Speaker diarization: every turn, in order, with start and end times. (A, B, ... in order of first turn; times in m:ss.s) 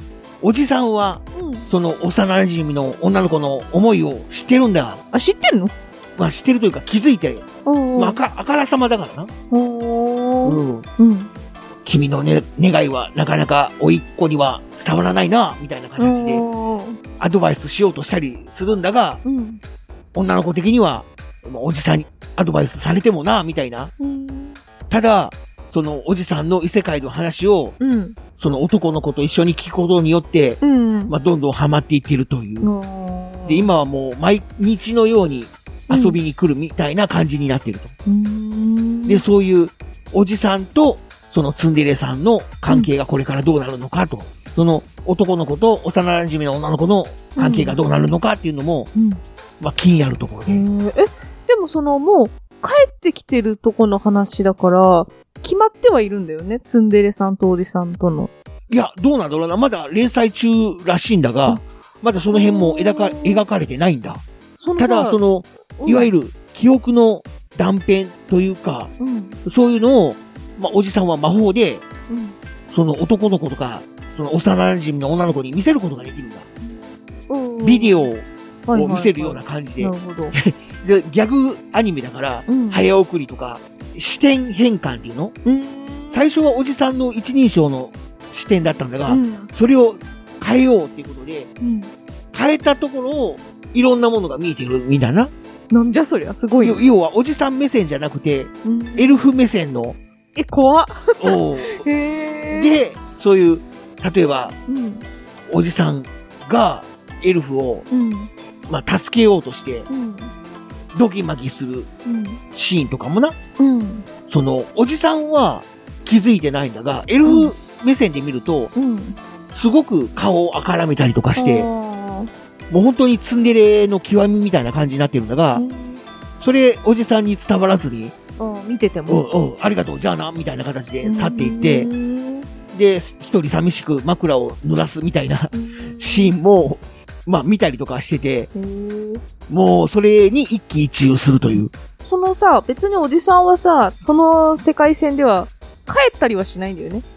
0:00.4-0:05.0 A
0:01.3-0:01.7 B
0:05.1-0:05.7 B
0:06.2-0:07.4 A
0:07.6-0:08.2 B
0:08.0-0:09.3 A
0:09.5-0:11.3 B
0:10.4-0:10.9 A
0:11.8-0:16.4 A
0:16.0-0:17.0 B
0:17.2-0:19.2 A
0:19.2-0:19.6 B
0:20.1-0:23.9 A
0:24.0-0:24.6 B
0:24.9-0:27.8 A
0:27.8-0:28.2 B
0:28.4-0:32.7 A
0:30.6-0:31.1 B
0:32.6-0:33.7 B
0:33.5-0:37.9 A
0:35.9-0:36.2 B
0:38.0-0:39.2 B
0:39.1-0:48.9 A
0:47.4-0:47.8 B
0:48.9-0:49.2 B
0:49.6-0:50.6 A
0:50.5-0:58.3 B
0:58.7-1:04.2 A
1:02.3-1:03.4 B
1:04.6-1:05.2 B
1:04.8-1:08.9 A
1:05.8-1:06.1 B
1:09.0-1:09.4 B
1:09.4-1:11.8 A
1:12.1-1:12.4 B
1:12.7-1:16.5 A
1:16.6-1:18.1 B
1:17.6-1:25.3 A
1:18.7-1:20.4 B
1:22.5-1:22.9 B
1:25.4-1:26.3 B
1:26.1-1:31.5 A
1:29.0-1:29.5 B
1:31.6-1:31.9 B
1:32.3-1:35.3 A
1:35.7-1:36.8 B
1:36.6-1:40.0 A
1:38.6-1:39.1 B
1:40.3-1:42.7 B
1:41.2-1:41.8 A
1:42.5-1:44.5 A
1:44.7-1:45.0 B
1:45.5-1:47.9 A
1:47.9-1:48.3 B
1:48.7-1:49.9 A
1:49.9-1:50.3 B
1:50.9-1:51.9 A
1:52.0-1:52.4 B
1:52.5-1:53.4 A
1:53.6-1:54.1 B
1:54.3-1:58.7 A
1:57.2-1:57.5 B
1:58.7-1:59.2 B
1:59.5-2:01.7 A
2:01.3-2:02.3 B
2:02.7-2:05.6 A
2:05.5-2:06.0 B
2:06.4-2:08.1 A
2:08.4-2:09.3 B
2:09.1-2:11.9 A
2:11.0-2:12.5 B
2:12.7-2:18.5 A
2:15.5-2:16.4 B
2:18.5-2:19.2 B
2:19.5-2:21.7 A
2:22.0-2:27.0 B